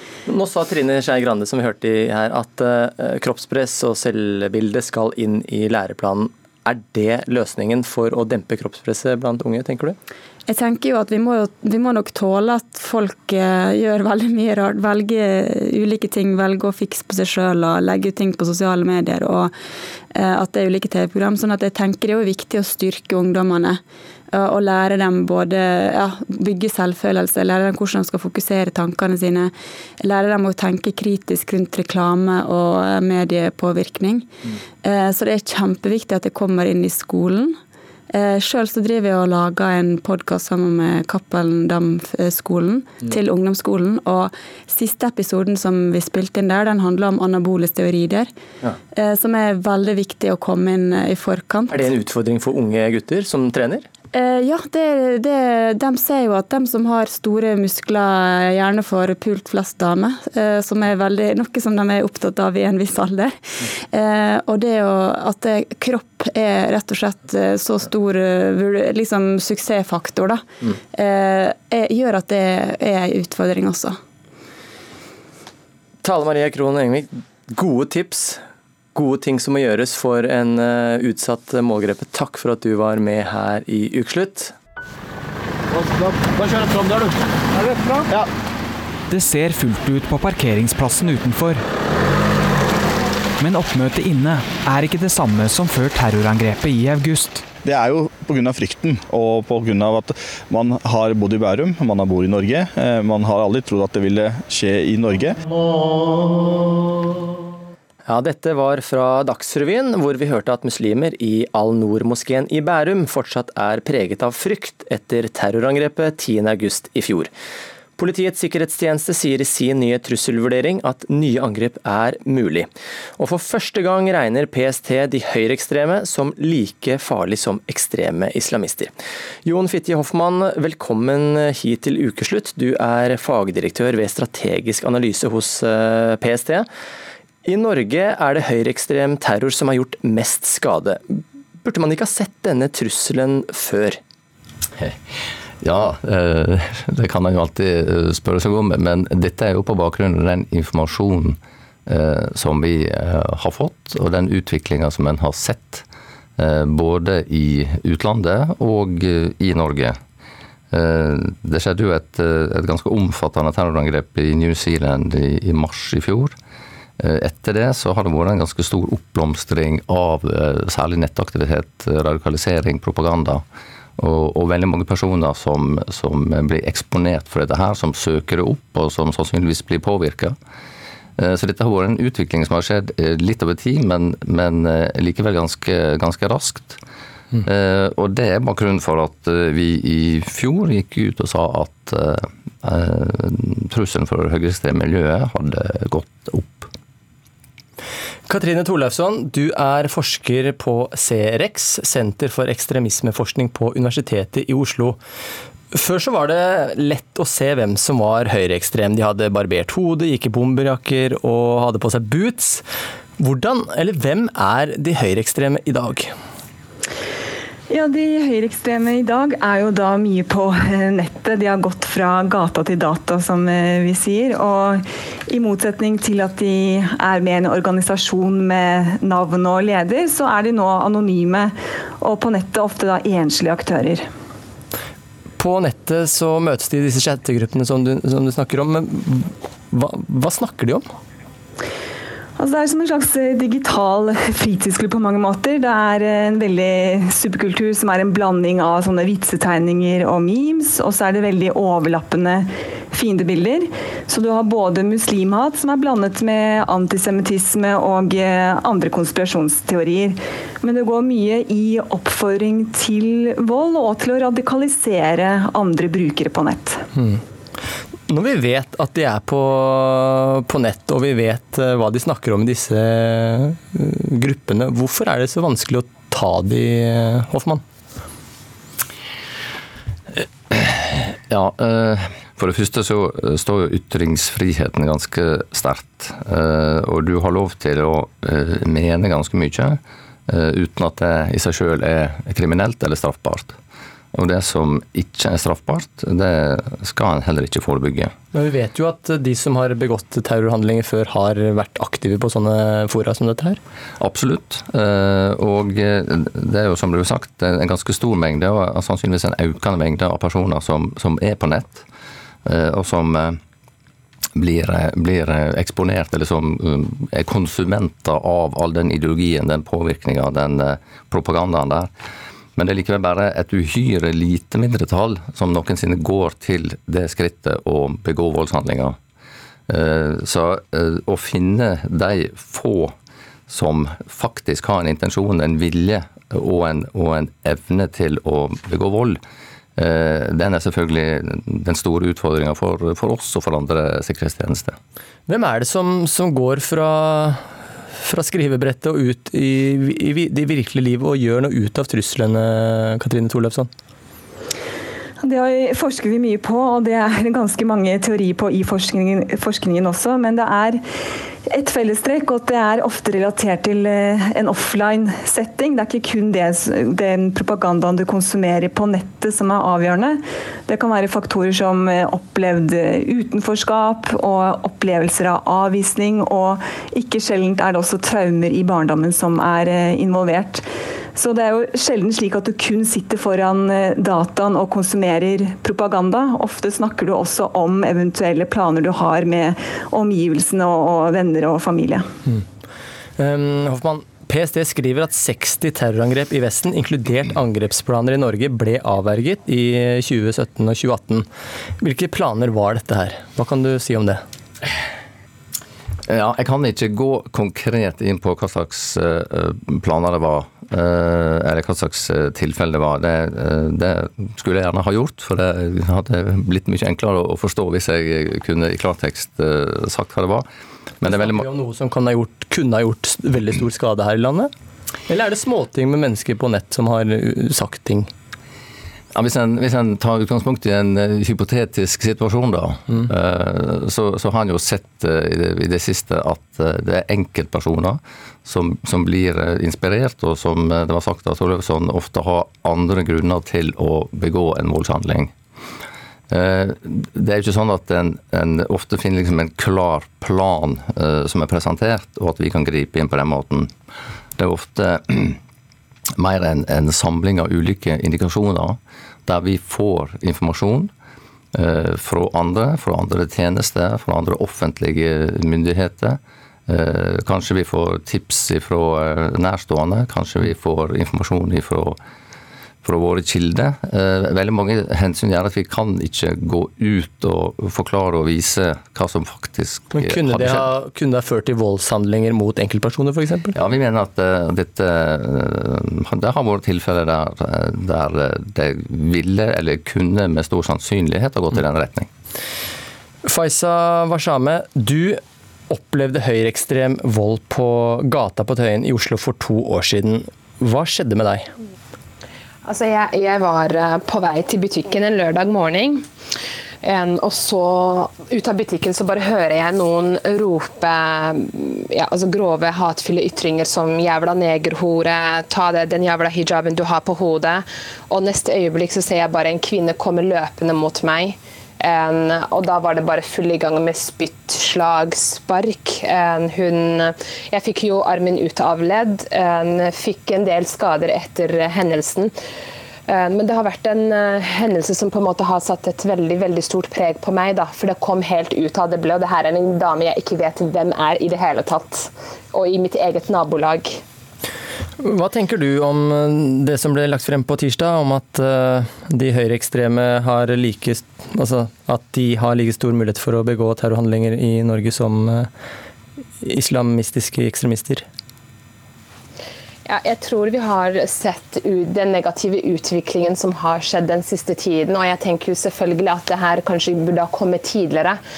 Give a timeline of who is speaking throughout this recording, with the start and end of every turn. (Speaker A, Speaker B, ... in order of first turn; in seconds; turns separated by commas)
Speaker A: 0.2-10.0, Speaker B: 10.5-19.5, Speaker B: 20.1-23.8, Speaker B: 24.3-34.3, Speaker B: 34.8-37.6, Speaker B: 38.1-48.3, Speaker B: 48.9-51.8, Speaker A: 51.7-53.9, Speaker B: 54.1-63.4, Speaker B: 63.9-74.0, Speaker A: 76.0-78.4, Speaker A: 78.9-84.5, Speaker C: 89.1-91.6, Speaker C: 93.4-97.4, Speaker D: 97.6-105.4, Speaker A: 108.1-117.3, Speaker A: 118.0-128.9, Speaker A: 129.4-136.7, Speaker A: 137.4-144.0, Speaker E: 144.8-155.8, Speaker E: 156.4-160.0, Speaker E: 160.7-166.3, Speaker E: 167.0-173.4, Speaker E: 174.0-180.4, Speaker E: 181.2-186.8, Speaker E: 187.4-196.7, Speaker A: 198.3-205.0, Speaker A: 205.7-212.6, Speaker A: 213.2-216.1, Speaker F: 217.7-234.1, Speaker A: 235.4-240.8, Speaker F: 242.4-266.8, Speaker A: 266.9-267.2, Speaker A: 268.1-277.6, Speaker E: 280.2-293.6, Speaker E: 294.1-298.1, Speaker A: 298.3-303.6, Speaker E: 304.0-311.9, Speaker E: 312.4-313.4, Speaker E: 314.4-321.9, Speaker E: 322.6-329.0, Speaker E: 329.7-332.9, Speaker E: 333.5-339.2, Speaker E: 339.8-344.8, Speaker A: 345.3-347.4, Speaker A: 348.0-353.7, Speaker F: 355.2-360.8, Speaker F: 361.5-380.6, Speaker F: 381.1-392.1, Speaker A: 393.2-401.2, Speaker A: 401.8-404.2, Speaker E: 406.1-420.4, Speaker E: 421.0-421.5, Speaker A: 421.0-424.5, Speaker A: 425.1-428.1, Speaker E: 429.1-445.3, Speaker E: 446.3-453.7, Speaker E: 454.4-455.4, Speaker E: 456.2-460.9, Speaker E: 461.5-472.0, Speaker E: 472.8-480.7, Speaker A: 479.9-483.5, Speaker E: 483.5-492.1, Speaker A: 493.2-501.5, Speaker G: 502.6-506.1, Speaker G: 506.8-532.3, Speaker G: 533.1-544.0, Speaker A: 545.0-555.5, Speaker A: 556.4-558.0, Speaker G: 559.9-568.2